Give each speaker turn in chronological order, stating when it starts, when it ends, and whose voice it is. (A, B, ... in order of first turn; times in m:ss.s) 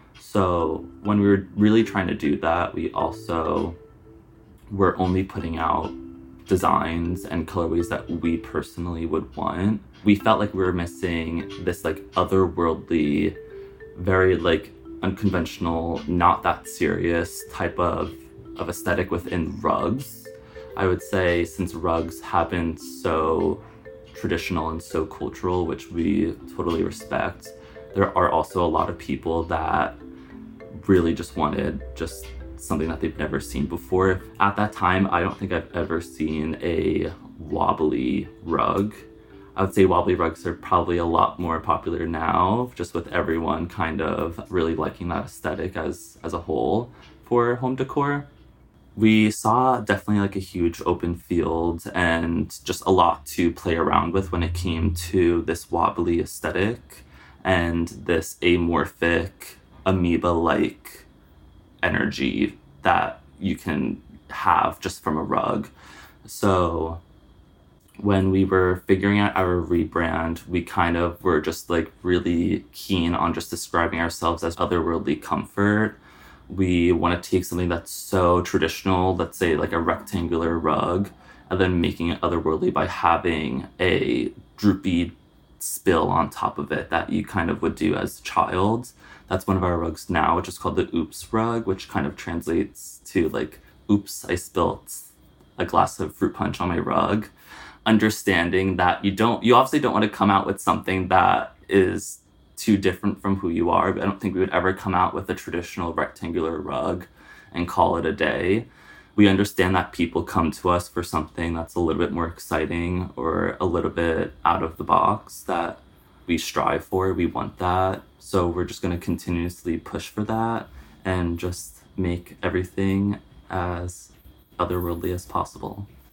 0:00.2-0:03.8 A
0:04.7-0:06.0 A
0:06.5-0:13.4 A
0:14.0-0:30.0 A
0:30.8-0:39.0 A
0:39.6-0:48.3 A
0:49.0-1:01.1 A
1:01.8-1:05.7 A
1:06.2-1:07.0 A
1:08.0-1:16.0 A
1:16.5-1:37.3 A
1:37.9-2:05.9 A